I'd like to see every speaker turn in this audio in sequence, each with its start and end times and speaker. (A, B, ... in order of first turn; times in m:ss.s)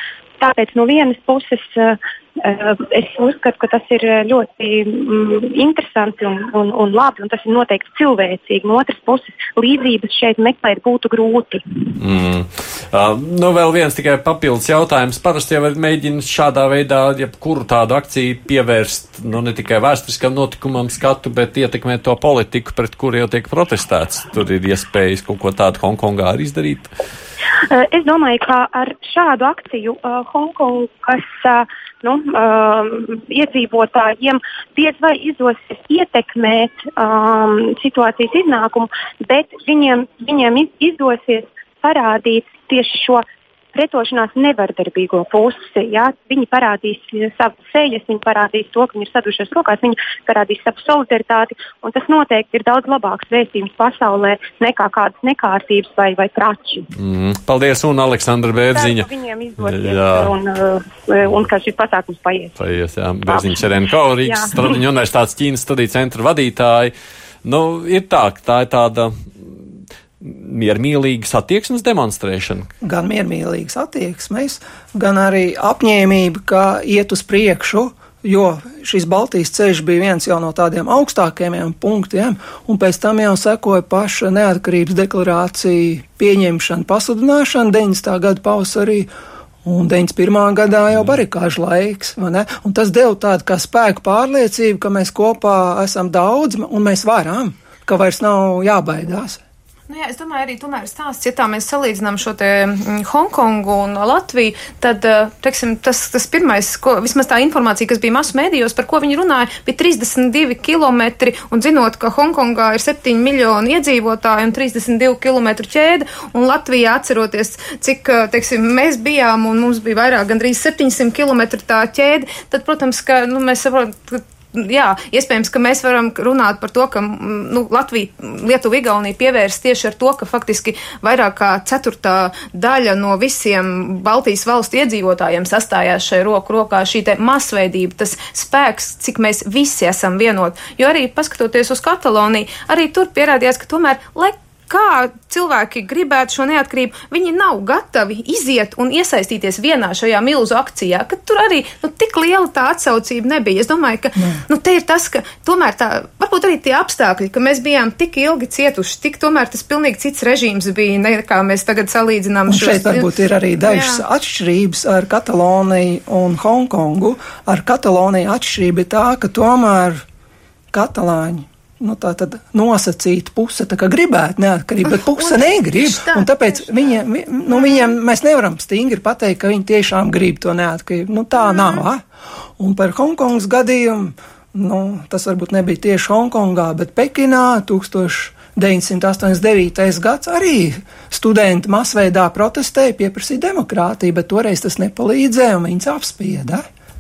0:00.4-0:11.6 A
0:12.0-0:26.9 B
0:27.7-0:56.9 A
0:57.0-0:59.1 B
0:58.7-1:02.6 A
0:59.6-1:00.3 B
1:02.6-1:06.9 B
1:03.3-1:03.7 A
1:04.2-1:04.8 A
1:07.4-1:09.6 B
1:10.2-1:12.7 B
1:12.8-1:29.1 C
1:29.6-1:39.4 C
1:39.9-2:43.1 D
2:42.5-2:50.0 C
2:43.7-2:44.0 D
2:50.7-3:02.0 C
2:55.0-2:57.9 D
3:01.4-3:01.8 D
3:02.6-3:16.6 C